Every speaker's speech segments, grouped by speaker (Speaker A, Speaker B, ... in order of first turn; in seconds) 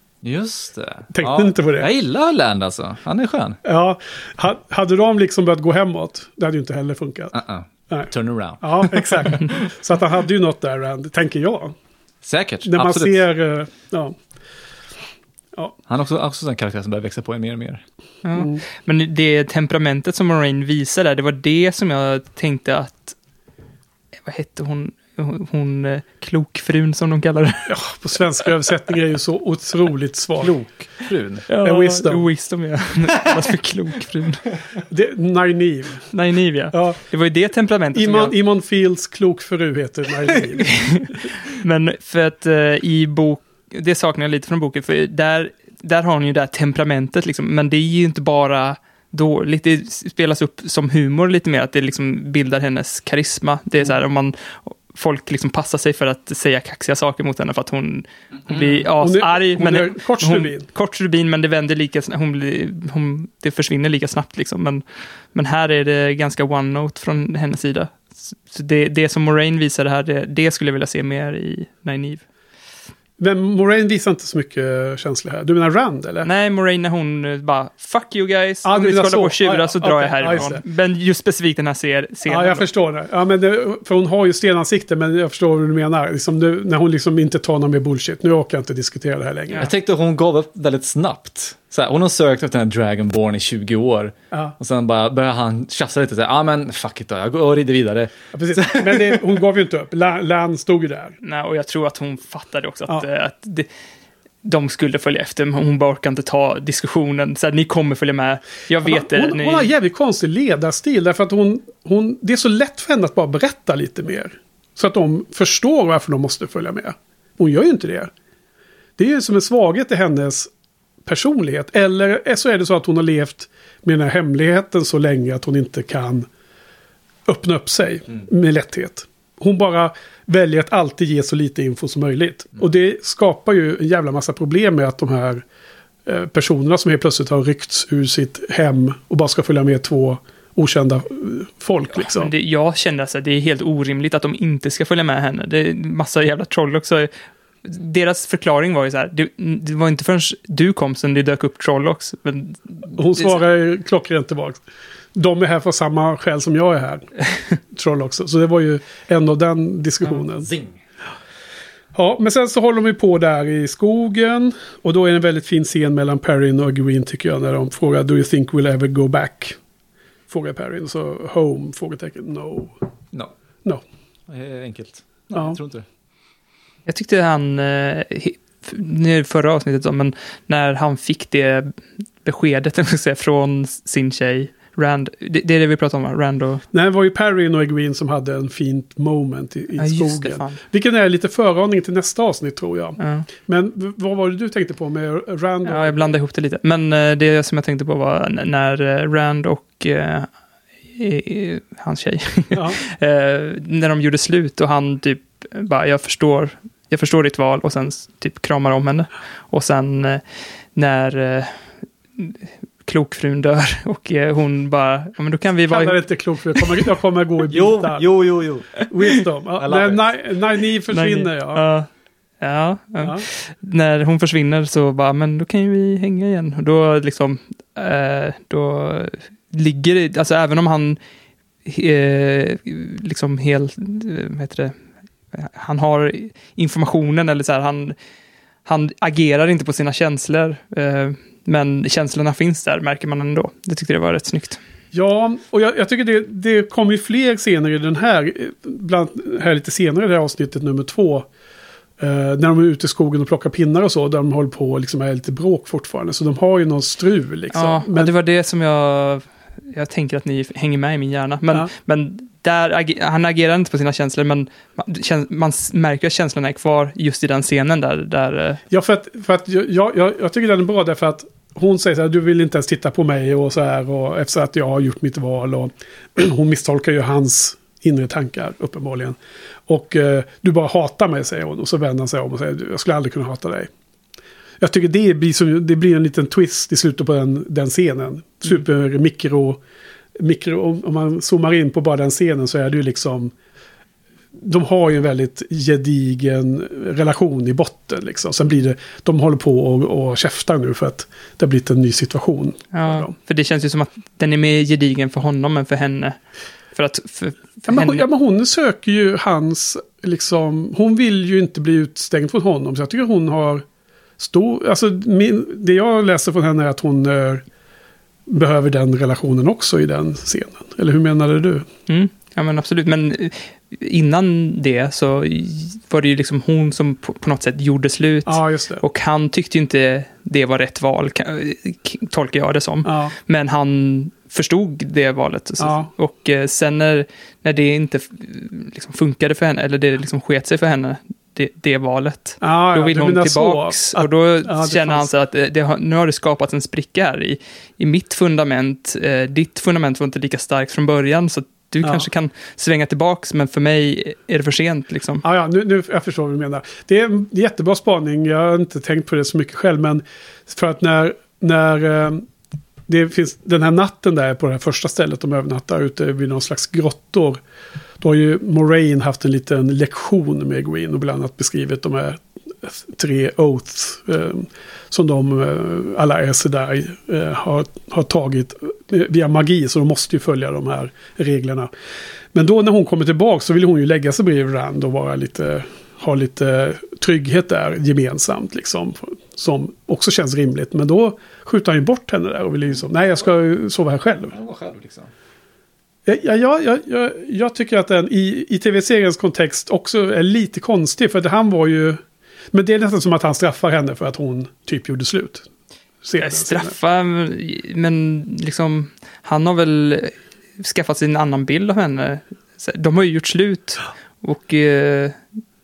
Speaker A: 0.2-3.6, 7.3-9.4, 12.2-13.2, 15.9-17.8, 30.4-31.4, 89.6-99.2, 160.4-160.8, 174.3-175.8, 217.5-218.9, 219.6-220.0, 394.3-395.1
Speaker B: 1.1-1.9, 3.6-7.3, 7.9-11.7, 12.7-14.1, 18.3-18.6, 27.7-30.6, 31.6-32.2, 34.9-36.0, 36.7-37.0, 37.9-41.0, 59.0-60.7, 73.2-76.3, 78.6-80.6, 82.2-89.7, 98.3-101.1, 108.8-118.1, 119.0-120.5, 121.0-126.3, 127.3-135.4, 136.1-142.3, 152.9-154.6, 155.1-160.5, 161.9-169.6, 170.3-172.7, 175.3-175.6, 186.7-196.1, 202.5-202.8, 215.7-218.1, 218.9-221.6, 244.9-251.3, 252.0-258.1, 268.7-279.2, 279.7-283.7, 284.6-289.6, 290.2-293.3, 294.4-303.1, 307.7-313.6, 314.2-317.4, 318.3-321.6, 328.2-328.8, 332.8-333.1, 335.6-335.9, 342.4-345.1, 355.2-362.2, 362.9-367.4, 368.0-381.7, 382.3-394.4, 396.1-402.0, 402.5-405.4, 406.0-406.8
Speaker C: 18.2-23.1, 24.2-27.7, 31.5-34.4, 36.1-38.3, 40.8-72.2, 76.2-82.7, 101.2-103.7, 104.4-109.7, 141.9-147.1, 147.6-153.4, 176.8-186.6, 189.8-190.6, 193.0-193.2, 195.7-200.3, 200.9-216.0, 220.9-221.9, 222.4-231.0, 231.6-234.8, 235.3-237.9, 238.6-244.6, 257.5-268.6, 302.7-306.2, 306.7-308.0, 321.9-355.2, 406.2-415.2